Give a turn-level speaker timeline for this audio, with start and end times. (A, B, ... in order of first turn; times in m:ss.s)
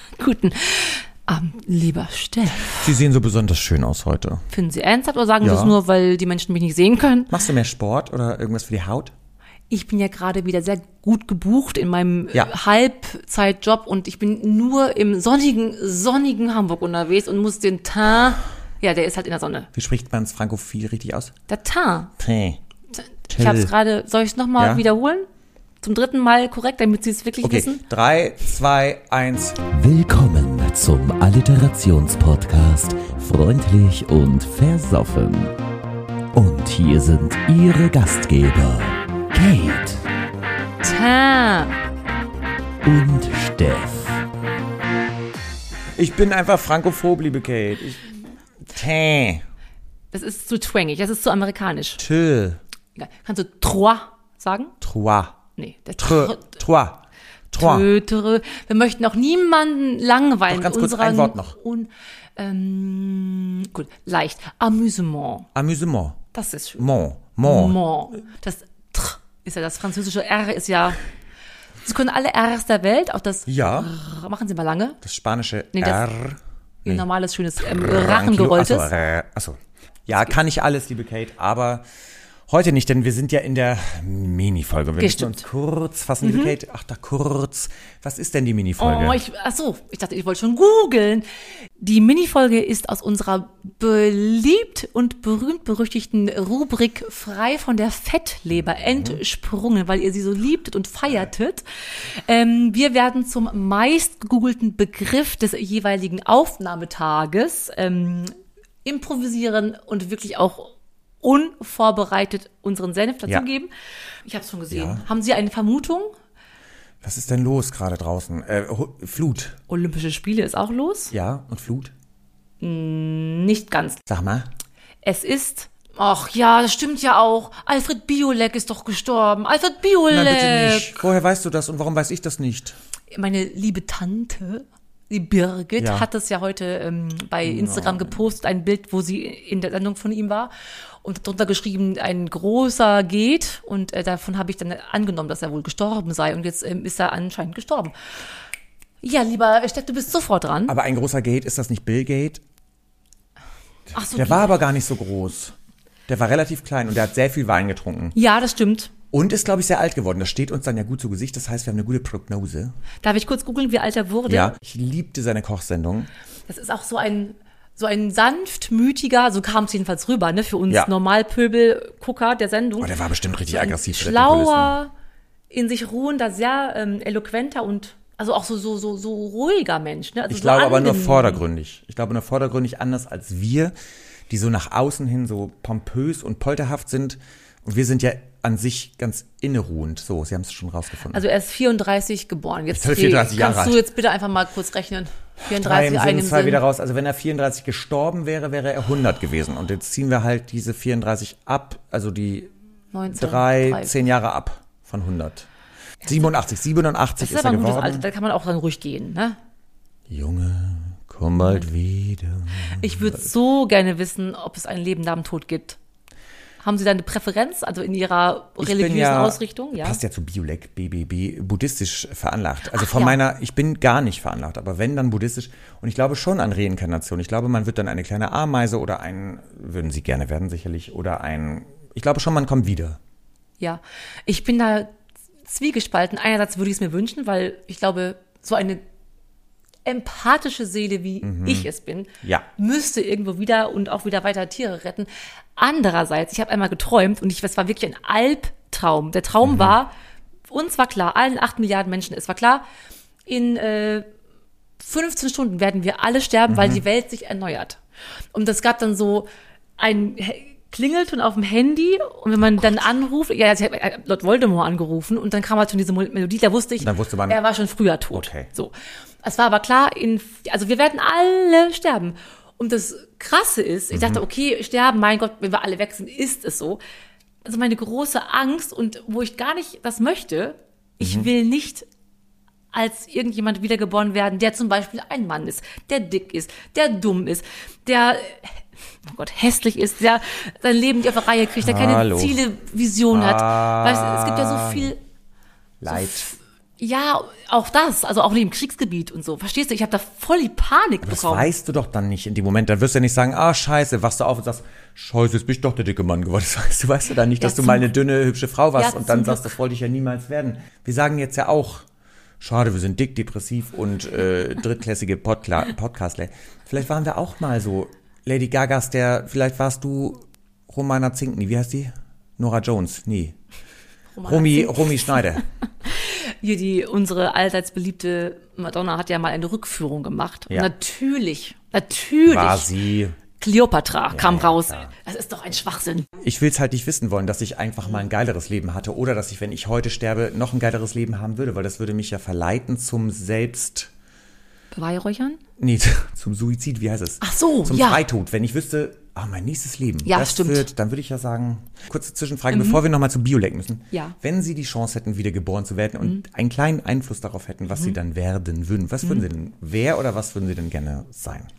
0:00.2-0:02.9 A
0:02.8-0:04.4 B
0:04.5-0:07.3 A
0:05.4-0:05.8 B
0:07.3-0:09.1 B
0:09.7-0:19.7 A
0:19.7-0:21.3 B
0:21.5-0:22.1 A
0:22.1-0:22.6 B
0:23.3-0:23.7 B
0:23.3-0:25.3 A
0:24.6-0:24.9 B
0:25.8-0:27.8 A
0:27.4-0:29.7 B
0:29.7-0:32.2 A
0:30.1-0:35.3 C
0:33.0-0:34.3 A
0:36.5-0:38.7 C
0:40.8-0:41.8 A
0:42.9-0:43.3 A
0:46.0-0:48.2 B
0:48.7-0:49.4 B
0:50.1-0:52.0 A
0:52.0-0:52.6 B
0:53.0-0:54.8 A
0:54.8-0:58.0 B
0:55.5-0:56.5 A
0:57.5-1:05.5 A
1:00.5-1:01.6 B
1:05.5-1:08.3 B
1:06.3-1:11.0 A
1:11.8-1:15.0 A
1:13.5-1:14.0 B
1:15.0-1:17.1 B
1:15.7-1:16.0 A
1:16.8-1:18.9 A
1:17.6-1:21.8 B
1:22.5-1:29.2 B
1:25.0-1:25.5 A
1:26.2-1:26.5 A
1:28.8-1:31.2 A
1:31.8-1:41.6 A
1:38.8-1:39.2 B
1:42.2-1:48.3 A
1:48.8-1:53.7 A
1:54.2-1:56.1 A
1:54.7-1:55.1 B
1:57.0-1:59.6 B
1:59.7-2:01.1 A
2:01.1-2:01.9 B
2:02.6-2:04.0 A
2:04.1-2:04.5 B
2:05.0-2:11.0 A
2:10.0-2:12.8 B
2:13.1-2:27.9 A
2:15.8-2:16.1 B
2:17.4-2:18.4 B
2:29.0-2:30.7 A
2:30.7-2:32.4 B
2:33.9-2:34.6 A
2:33.9-2:35.5 B
2:36.1-2:38.2 B
2:38.2-2:39.0 A
2:39.0-2:42.7 B
2:43.0-2:44.6 A
2:44.3-2:46.1 B
2:46.5-2:53.0 A
2:50.7-2:50.9 B
2:52.8-2:54.8 B
2:53.5-2:54.9 A
2:55.5-3:01.4 A
3:00.3-3:03.7 B
3:04.3-3:11.3 B
3:11.1-3:16.6 A
3:12.7-3:13.9 B
3:15.4-3:22.5 B
3:22.9-3:24.0 A
3:23.1-3:25.5 B
3:26.0-3:28.1 B
3:27.2-3:29.4 A
3:30.1-3:33.4 B
3:32.8-3:35.8 A
3:36.6-3:40.0 A
3:38.6-3:53.0 B
3:42.7-3:43.2 A
3:53.6-3:54.9 A
3:55.4-3:58.8 A
3:59.8-4:09.9 A
4:01.2-4:02.6 B
4:09.4-4:09.8 B
4:10.5-4:12.6 A
4:13.3-4:14.0 A
4:14.8-4:17.8 A
4:16.5-4:16.8 B
4:18.3-4:19.3 A
4:19.8-4:36.8 A
4:26.8-4:27.5 B
4:28.1-4:28.5 B
4:33.9-4:34.3 B
4:37.4-4:41.9 A
4:41.0-4:41.3 B
4:42.7-4:54.9 A
4:51.6-4:52.5 B
4:53.1-4:55.0 B
4:55.8-4:56.4 B
4:56.8-5:01.5 A
5:01.0-5:11.8 B
5:07.4-5:07.9 A
5:08.8-5:09.6 A
5:12.4-5:23.4 B
5:24.2-5:32.8 A
5:24.2-5:25.4 B
5:32.2-5:33.3 B
5:33.3-5:36.1 A
5:34.1-5:35.0 B
5:36.2-5:43.9 B
5:44.7-5:45.4 A
5:45.6-6:01.5 B
5:47.2-5:48.0 A
5:50.0-5:50.7 A
5:52.5-5:52.8 A